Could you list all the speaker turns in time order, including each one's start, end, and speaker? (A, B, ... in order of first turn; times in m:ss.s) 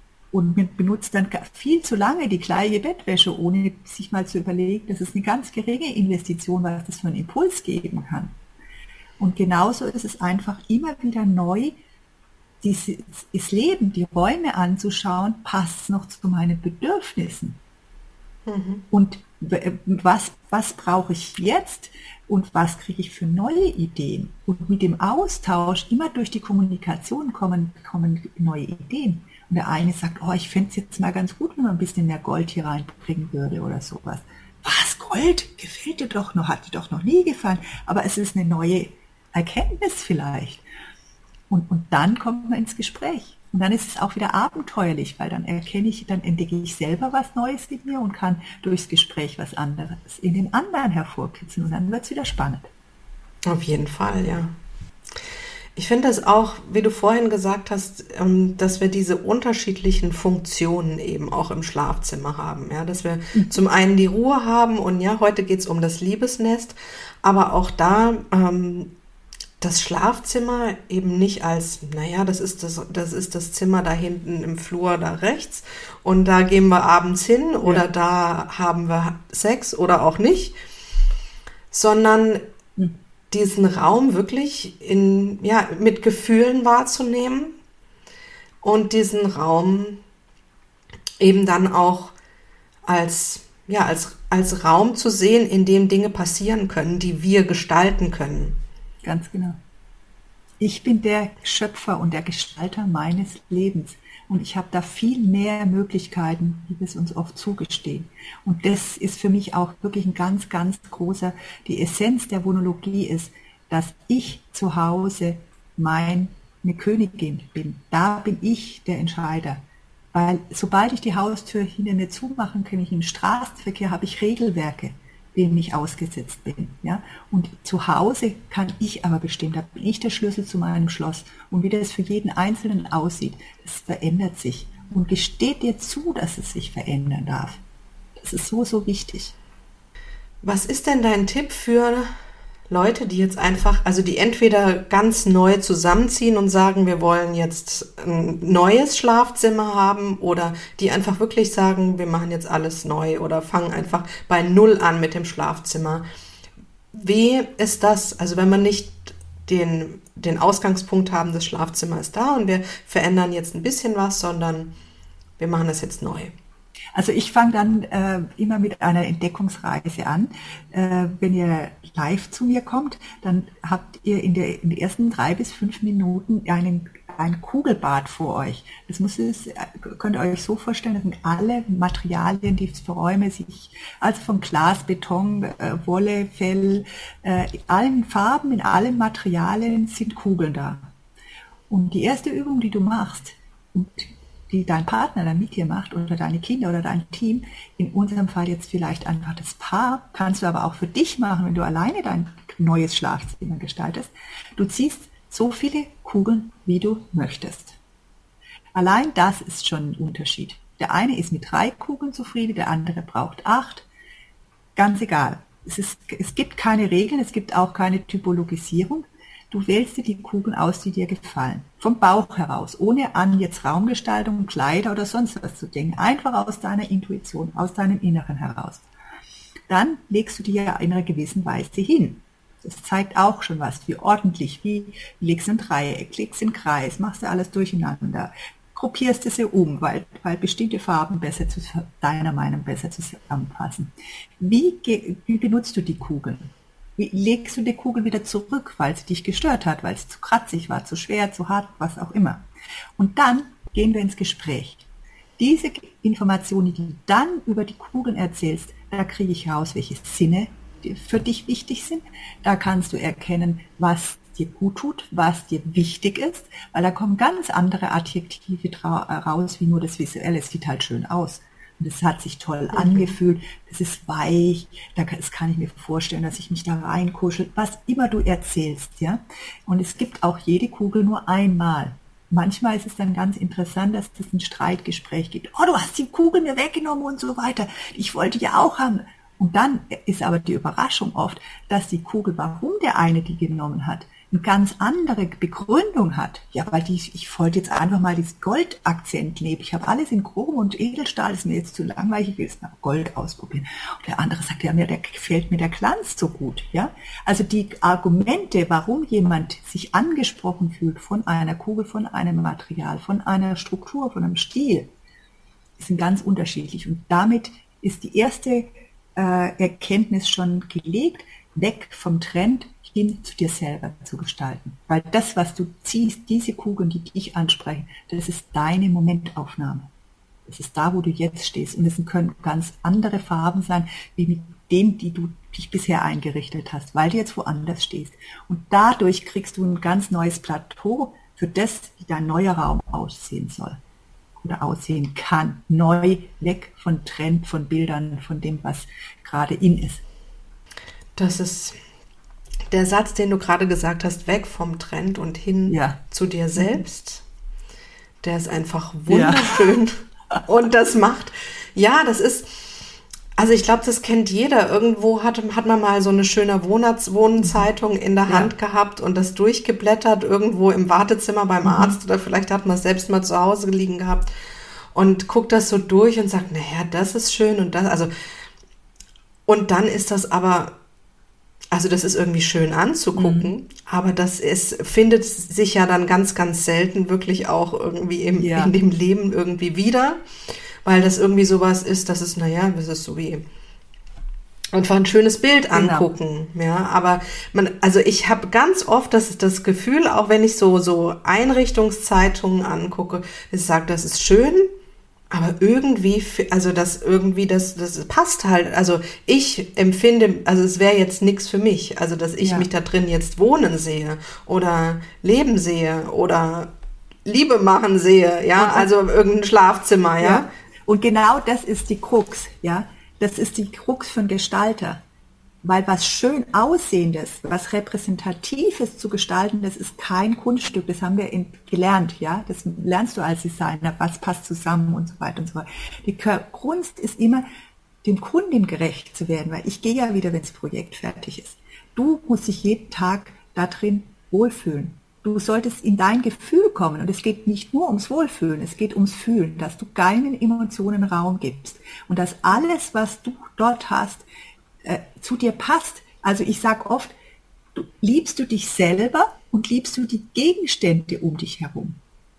0:00.3-0:08.4 A
0:09.2-0:11.8 A
0:12.6-0:17.6 A
0:18.5-0:18.8 B
0:18.9-0:40.6 A
0:41.5-0:52.7 A
0:53.4-0:54.5 B
0:55.8-1:08.9 B
1:09.6-1:20.5 B
1:21.7-1:22.4 B
1:23.3-1:27.5 B
1:28.6-1:30.0 B
1:31.2-1:32.1 B
1:32.9-1:38.6 B
1:39.0-1:39.6 A
1:40.6-2:17.6 A
2:18.2-2:19.4 A
2:20.4-2:22.1 B
2:22.7-2:36.0 B
2:36.9-2:44.7 B
2:45.4-2:46.3 B
2:47.0-3:10.9 A
3:11.7-3:27.8 A
3:28.7-3:33.9 A
3:34.8-3:48.8 A
3:49.7-4:12.5 A
4:13.0-4:14.9 A
4:15.4-5:14.9 A
4:32.7-4:33.1 B
5:15.8-5:29.9 A
5:30.5-5:43.8 A
5:44.4-5:50.0 A
5:51.2-5:51.8 B
5:52.7-5:57.2 B
5:55.7-5:56.0 A
5:56.6-5:56.8 A
5:58.2-6:02.8 B
5:59.1-5:59.5 A
6:03.4-6:14.3 B
6:08.3-6:08.5 A
6:11.6-6:12.0 A
6:15.0-6:18.1 B
6:19.5-6:20.8 B
6:21.7-6:30.2 B
6:23.2-6:23.5 A
6:28.4-6:28.7 A
6:30.8-6:33.4 B
6:34.7-6:44.7 B
6:35.7-6:36.1 A
6:45.3-6:56.7 B
6:52.4-6:52.7 A
6:57.2-7:00.5 B
6:58.6-6:58.9 A
7:00.2-7:05.0 A
7:05.6-7:17.4 A
7:18.0-7:34.2 A
7:34.8-7:37.1 A
7:37.8-7:42.0 A